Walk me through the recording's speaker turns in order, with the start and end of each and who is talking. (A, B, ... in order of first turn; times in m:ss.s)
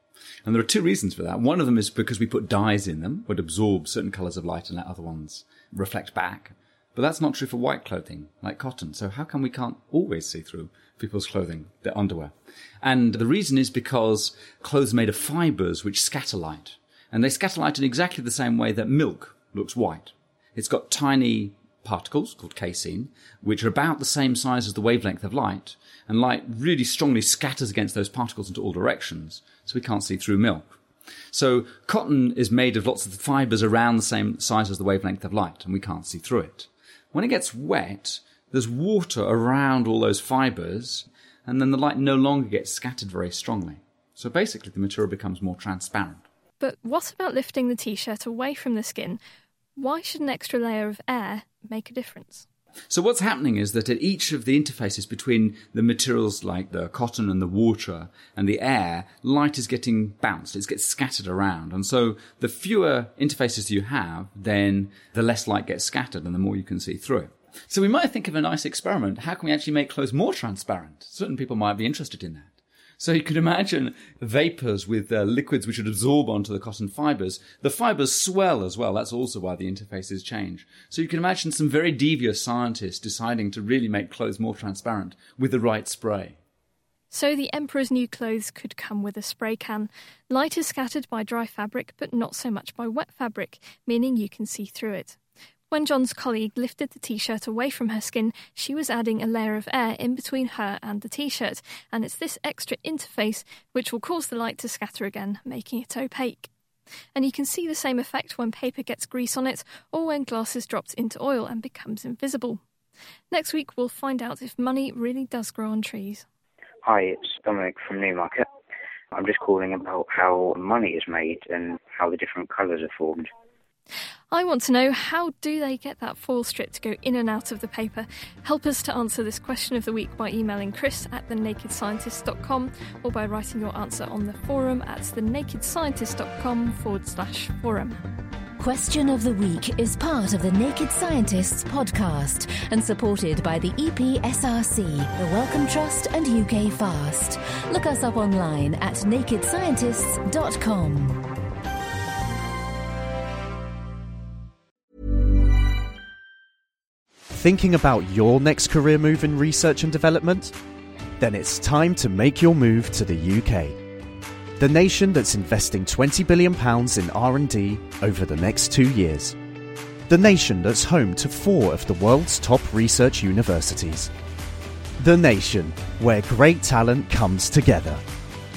0:00.4-0:30.8 A
0:31.3-0:46.2 A
0:46.6-0:49.2 B
0:49.8-0:52.4 B
0:52.9-1:26.4 A
1:27.1-1:35.2 B
1:35.7-1:46.5 B
1:47.1-1:52.6 B
1:53.3-1:56.2 B
1:56.8-1:58.4 C
1:59.1-2:03.3 C
2:04.3-2:18.0 B
2:18.6-2:31.2 D
2:37.3-2:40.6 E
2:41.2-2:43.8 E
2:44.6-2:49.4 E
2:50.1-2:54.1 E
2:55.0-2:58.0 E